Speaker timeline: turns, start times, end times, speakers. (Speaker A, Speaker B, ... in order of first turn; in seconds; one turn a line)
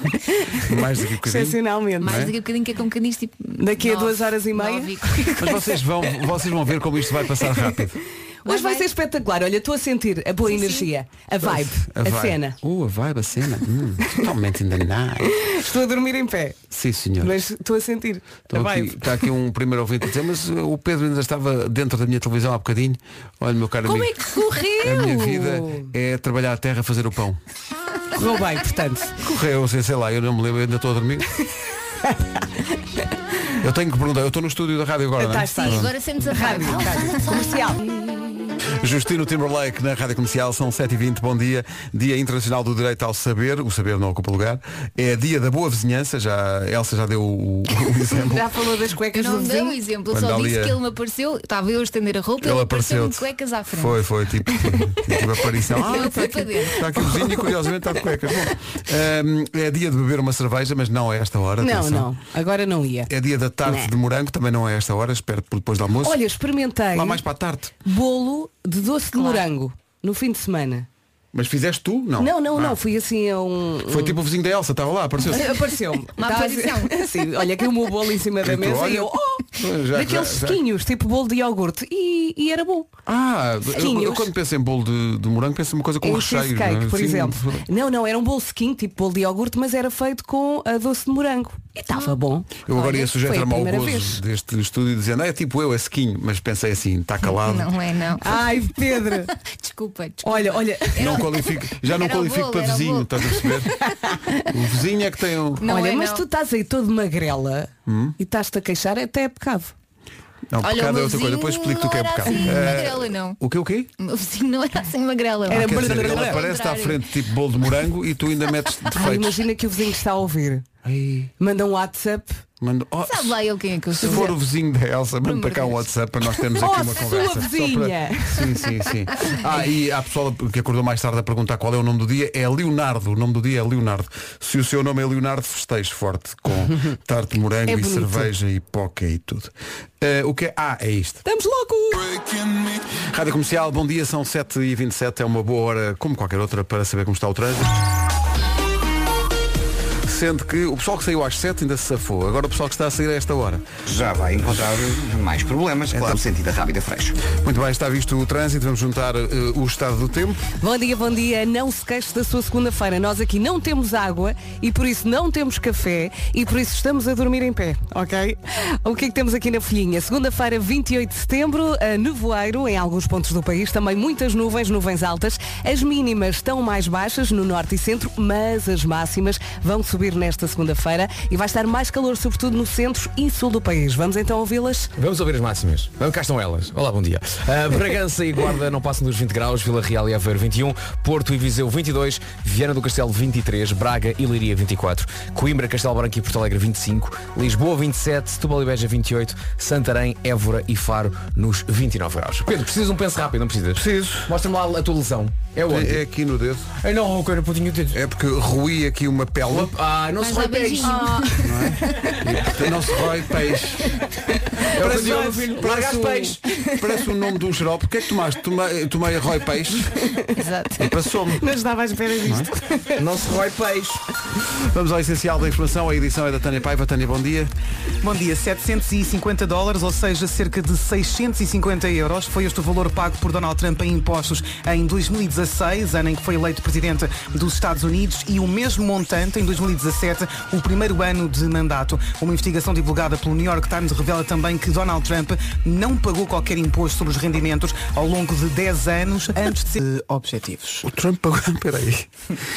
Speaker A: 0.6-2.3
Speaker B: 1.2-2.2
Speaker C: 2.0-5.4
Speaker B: 3.6-5.7
Speaker A: 5.4-8.0
Speaker B: 8.4-12.6
Speaker C: 8.5-8.9
Speaker C: 10.5-10.9
Speaker A: 11.4-15.4
Speaker B: 15.3-16.6
Speaker A: 16.7-17.5
Speaker B: 17.2-19.2
Speaker A: 18.5-27.4
Speaker B: 23.9-25.9
Speaker B: 28.1-29.1
Speaker A: 29.2-31.3
Speaker B: 32.0-32.5
Speaker A: 33.6-35.9
Speaker B: 35.2-38.1
Speaker C: 35.6-37.5
Speaker A: 38.8-48.5
Speaker B: 48.1-49.8
Speaker C: 49.1-54.0
Speaker A: 50.1-50.8
Speaker A: 52.4-62.1
Speaker B: 55.7-57.4
Speaker C: 55.9-56.9
Speaker B: 61.6-63.1
Speaker A: 63.1-66.2
Speaker B: 63.6-63.9
Speaker B: 66.0-67.2
Speaker A: 66.9-67.7
Speaker B: 67.8-70.9
Speaker C: 69.2-69.5
Speaker A: 71.3-72.8
Speaker B: 72.2-74.2
Speaker A: 73.9-75.6
Speaker B: 75.3-82.9
Speaker C: 76.1-77.5
Speaker A: 78.4-80.6
Speaker A: 83.1-87.7
Speaker B: 83.7-84.3
Speaker B: 86.0-94.2
Speaker A: 92.7-97.8
Speaker C: 97.3-103.9
Speaker B: 98.2-99.3
Speaker B: 100.2-101.2
Speaker A: 101.0-103.8
Speaker B: 103.8-104.5
Speaker A: 104.5-105.7
Speaker C: 105.6-106.2
Speaker B: 105.7-109.7
Speaker A: 107.9-108.2
Speaker A: 110.5-113.9
Speaker C: 110.6-113.4
Speaker C: 114.0-117.0
Speaker B: 115.5-116.5
Speaker A: 115.5-119.4
Speaker B: 118.9-120.7
Speaker A: 120.8-121.3
Speaker B: 121.4-122.4
Speaker A: 122.6-123.4
Speaker C: 123.0-124.3
Speaker A: 123.9-141.2
Speaker B: 124.0-124.3
Speaker C: 125.3-125.8
Speaker B: 126.6-128.6
Speaker B: 137.7-138.3
Speaker B: 141.3-142.2
Speaker A: 142.9-147.8
Speaker A: 150.1-153.7
Speaker D: 153.9-157.2
Speaker A: 155.9-156.2
Speaker A: 157.3-160.4
Speaker B: 160.6-184.9
Speaker E: 185.0-206.0
Speaker A: 203.8-204.3
Speaker A: 205.7-206.7
Speaker E: 206.8-208.0
Speaker A: 207.9-209.7
Speaker E: 209.5-211.1
Speaker C: 210.2-212.1
Speaker B: 210.8-212.1
Speaker A: 211.4-213.9
Speaker B: 214.3-215.5
Speaker E: 214.7-216.4
Speaker A: 214.8-220.1
Speaker B: 220.0-220.4
Speaker C: 220.4-220.9
Speaker A: 220.8-221.5
Speaker B: 221.4-223.0
Speaker A: 222.2-222.5
Speaker E: 223.0-224.0
Speaker A: 224.4-227.5
Speaker F: 228.0-250.9
Speaker A: 250.8-252.1